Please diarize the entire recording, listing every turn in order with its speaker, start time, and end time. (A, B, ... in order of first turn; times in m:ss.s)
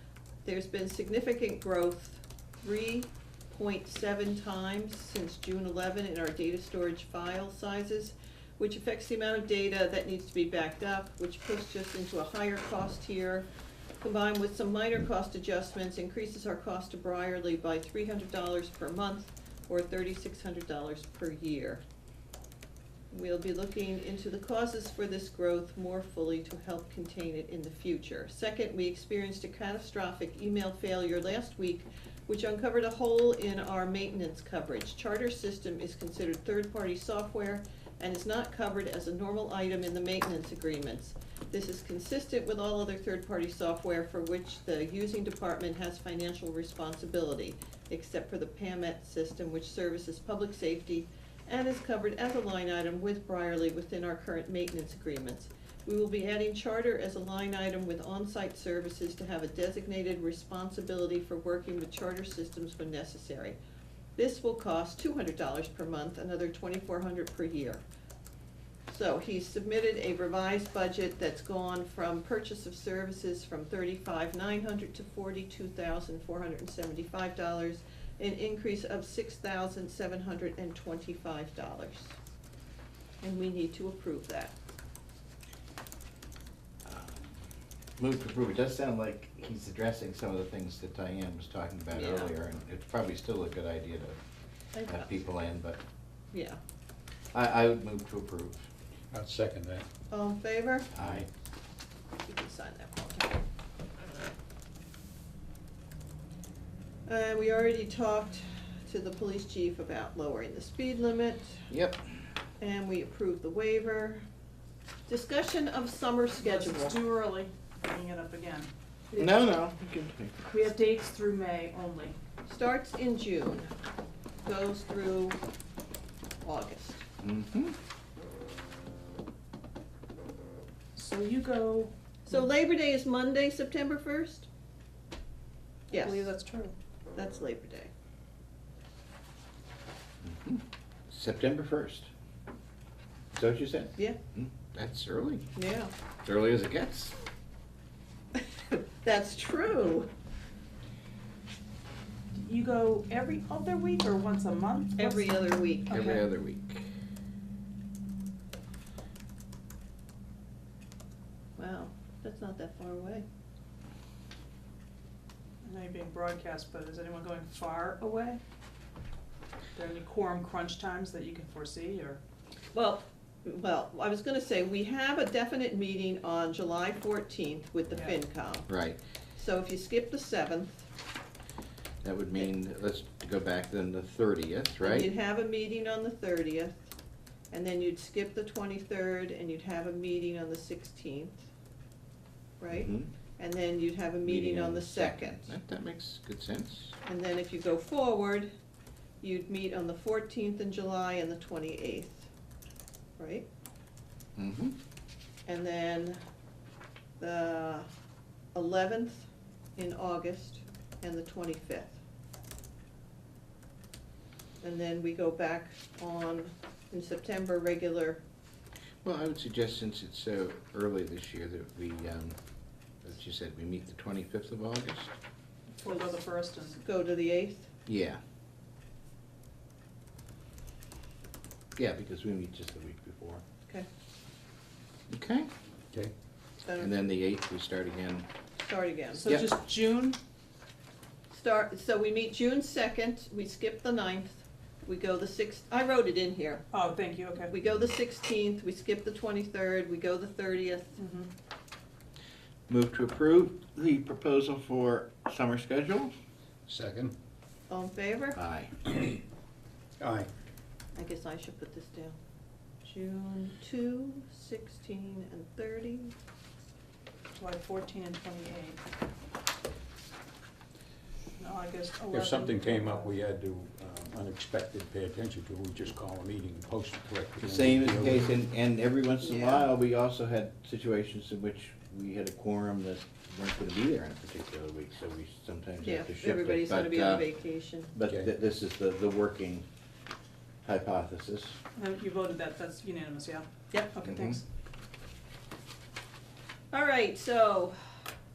0:00.4-0:13.5 A
0:14.0-0:21.8 A
0:23.1-1:03.6 A
1:04.2-1:07.8 A
1:08.9-1:22.2 A
1:23.2-1:24.6 A
1:26.8-1:27.4 B
1:28.0-1:34.2 B
1:31.9-1:32.3 A
1:34.8-1:35.2 A
1:34.9-1:35.8 B
1:36.3-1:36.6 A
1:37.3-1:38.7 B
1:39.1-1:39.9 C
1:40.1-1:40.9 A
1:40.9-1:41.2 B
1:41.0-1:41.3 C
1:42.2-1:43.3 A
1:47.1-1:51.7 A
1:51.7-1:52.0 B
1:52.6-1:54.2 A
1:55.1-1:57.0 A
1:56.4-1:58.7 D
1:59.1-2:00.5 B
2:00.4-2:02.2 D
2:02.5-2:03.7 A
2:04.4-2:05.4 A
2:06.4-2:07.1 A
2:07.2-2:07.8 B
2:11.0-2:12.5 D
2:12.3-2:14.5 A
2:15.9-2:16.3 A
2:15.9-2:16.7 D
2:17.2-2:17.9 A
2:20.2-2:22.1 B
2:23.3-2:25.5 B
2:25.6-2:25.9 A
2:26.2-2:27.2 B
2:28.7-2:30.1 A
2:32.3-2:36.2 D
2:35.0-2:36.0 A
2:35.9-2:36.9 B
2:41.6-2:43.2 A
2:45.6-2:48.4 D
2:49.8-2:52.2 D
2:52.7-2:58.7 A
2:58.7-2:59.0 B
2:59.4-3:00.9 A
3:02.0-3:05.1 B
3:04.8-3:06.9 A
3:07.5-3:11.5 A
3:12.6-3:15.6 A
3:12.7-3:13.1 B
3:14.2-3:17.0 B
3:17.0-3:18.5 A
3:19.2-3:22.3 A
3:23.2-3:23.5 A
3:24.4-3:24.8 B
3:25.5-3:26.2 A
3:27.2-3:27.9 A
3:28.5-3:32.0 A
3:34.6-3:38.2 A
3:39.0-3:42.4 B
3:43.0-3:45.2 B
3:45.8-3:46.8 D
3:46.7-3:47.7 A
3:47.9-3:48.2 B
3:51.8-3:53.4 B
3:55.1-3:55.5 B
3:56.6-3:56.9 A
3:56.8-3:58.3 B
3:58.6-3:59.3 A
3:59.1-4:00.2 D
4:01.3-4:06.7 A
4:06.7-4:07.5 D
4:07.5-4:11.0 A
4:11.0-4:11.3 D
4:12.7-4:16.1 B
4:16.7-4:17.1 C
4:17.7-4:18.4 A
4:18.4-4:19.1 B
4:20.0-4:20.3 C
4:21.0-4:22.2 A
4:22.8-4:26.1 A
4:27.4-4:28.8 D
4:31.4-4:33.1 D
4:32.1-4:38.3 C
4:37.4-4:47.3 B
4:39.2-4:39.7 A
4:45.8-4:47.9 A
4:47.9-4:49.6 B
4:50.6-4:51.6 B
4:51.8-4:54.4 D
4:54.0-4:54.4 B
4:56.7-4:58.0 A